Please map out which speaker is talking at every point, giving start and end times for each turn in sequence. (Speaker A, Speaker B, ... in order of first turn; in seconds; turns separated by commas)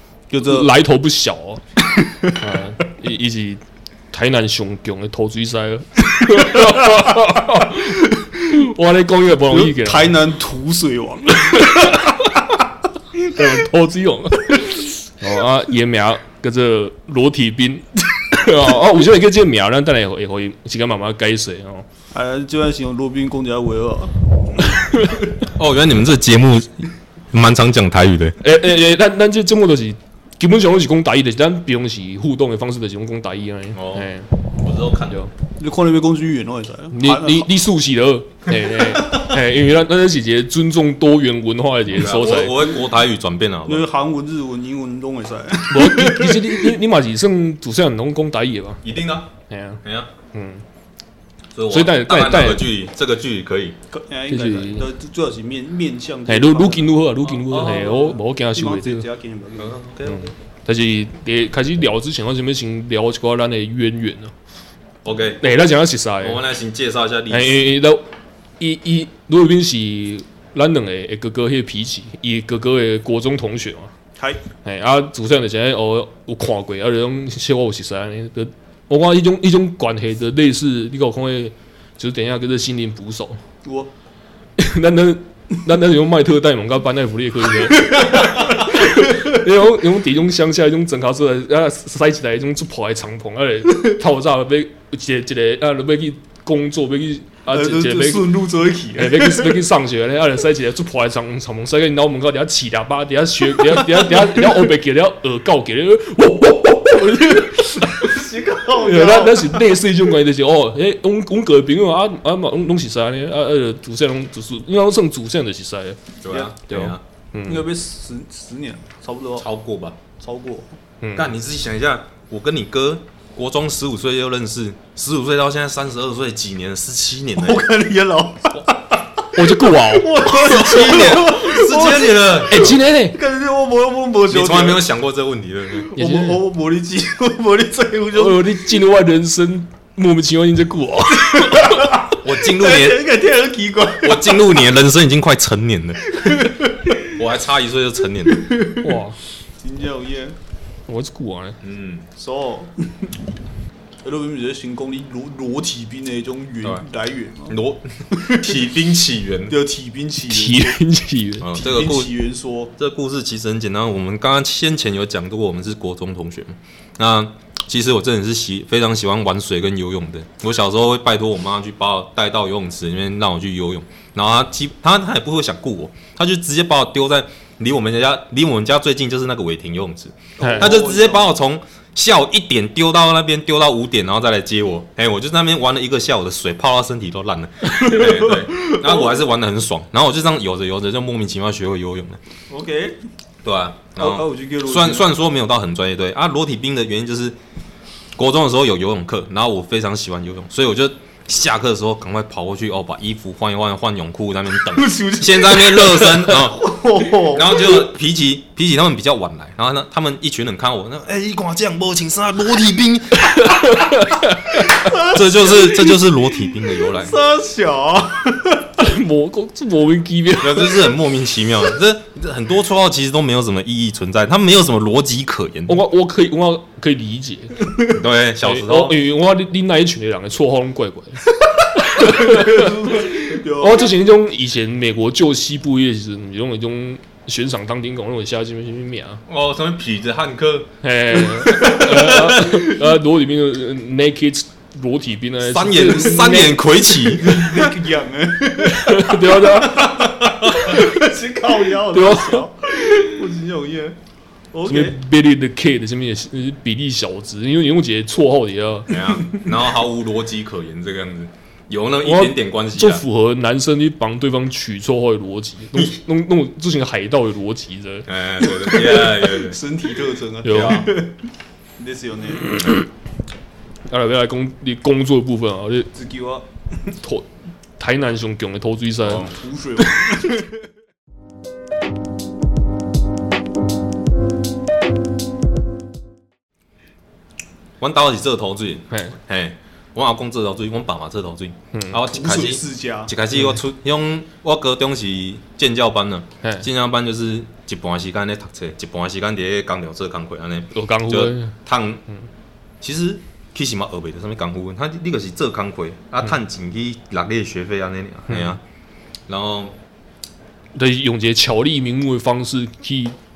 Speaker A: 0.3-0.7, Speaker B: 0.4-1.6, Speaker A: 1.9-2.4, Speaker B: 2.4-10.1, Speaker A: 6.4-8.5, Speaker A: 9.5-12.6, Speaker B: 11.5-12.1, Speaker B: 13.3-21.9, Speaker A: 22.1-25.2, Speaker C: 25.4-28.4, Speaker B: 28.4-34.3, Speaker C: 33.7-35.2, Speaker A: 35.6-37.5, Speaker B: 36.9-42.8, Speaker C: 38.8-39.3, Speaker C: 41.9-43.9, Speaker A: 43.6-46.7, Speaker B: 45.7-48.8, Speaker C: 48.8-49.3, Speaker B: 49.5-50.6, Speaker C: 49.8-50.1, Speaker C: 51.5-53.8, Speaker B: 51.7-52.7, Speaker A: 53.9-59.8, Speaker B: 54.3-54.9, Speaker B: 56.3-59.0, Speaker C: 57.5-57.9, Speaker C: 59.6-60.3, Speaker B: 60.0-64.3, Speaker C: 65.0-65.7, Speaker B: 65.4-66.4, Speaker C: 66.2-67.6, Speaker B: 67.3-68.0, Speaker B: 68.6-73.9, Speaker A: 74.2-74.4, Speaker B: 74.6-83.4, Speaker A: 83.6-83.9, Speaker B: 84.6-98.3, Speaker A: 87.9-89.0, Speaker A: 97.5-99.6, Speaker B: 99.0-108.1, Speaker A: 107.4-109.7, Speaker B: 108.8-116.0, Speaker C: 116.2-117.0, Speaker A: 116.3-116.5, Speaker B: 116.7-117.7, Speaker A: 117.5-119.5, Speaker C: 119.4-120.0, Speaker A: 120.2-120.8, Speaker B: 121.0-121.3, Speaker C: 121.1-127.7, Speaker A: 127.4-134.8, Speaker B: 129.3-130.2, Speaker C: 130.2-132.8, Speaker B: 132.5-133.2, Speaker C: 134.3-135.9, Speaker A: 135.8-138.7, Speaker B: 136.0-136.4, Speaker B: 138.1-142.0, Speaker A: 141.2-144.6, Speaker C: 142.1-143.0, Speaker C: 144.0-146.2, Speaker A: 146.2-147.1, Speaker C: 147.1-148.5, Speaker A: 148.3-149.0, Speaker B: 148.8-149.2, Speaker A: 149.6-150.3, Speaker B: 150.9-151.6, Speaker C: 151.6-152.1, Speaker A: 152.2-153.1, Speaker A: 154.0-157.6, Speaker C: 157.5-159.6, Speaker A: 158.1-158.5, Speaker A: 159.5-160.8, Speaker B: 160.3-161.5, Speaker C: 161.4-162.1, Speaker A: 161.4-162.7, Speaker C: 162.8-192.2, Speaker A: 180.4-181.3, Speaker B: 180.4-180.7, Speaker A: 187.8-189.1, Speaker A: 192.5-193.0, Speaker C: 193.4-197.3, Speaker A: 194.0-195.1, Speaker C: 198.2-214.0, Speaker A: 204.7-207.9, Speaker B: 213.5-214.7, Speaker A: 214.7-218.7, Speaker C: 214.8-217.2, Speaker B: 218.8-220.9, Speaker C: 220.4-225.8, Speaker B: 225.7-227.7, Speaker C: 227.9-229.0, Speaker B: 228.4-239.2, Speaker A: 231.9-233.9, Speaker C: 239.3-240.7, Speaker B: 240.8-246.6, Speaker C: 241.2-242.6, Speaker A: 241.4-241.9, Speaker C: 245.4-247.6, Speaker A: 247.0-253.9, Speaker B: 248.6-251.1, Speaker C: 250.2-250.6, Speaker B: 251.9-252.4, Speaker A: 254.5-254.9, Speaker B: 254.7-259.0, Speaker C: 258.9-263.0, Speaker A: 259.2-259.5, Speaker B: 262.0-268.1, Speaker C: 268.1-269.6, Speaker A: 268.5-271.2, Speaker B: 270.4-270.9, Speaker C: 270.5-270.9, Speaker A: 271.8-272.5, Speaker B: 272.4-272.9, Speaker B: 273.9-275.9, Speaker A: 275.9-276.5, Speaker B: 277.0-277.3, Speaker B: 277.8-279.3, Speaker A: 279.1-280.6, Speaker C: 287.8-302.0, Speaker B: 288.9-289.2, Speaker B: 291.7-292.0, Speaker A: 292.0-293.1, Speaker B: 296.4-296.7, Speaker B: 300.7-301.5, Speaker C: 302.8-308.6, Speaker B: 308.3-308.6, Speaker C: 309.3-309.7, Speaker B: 310.8-313.1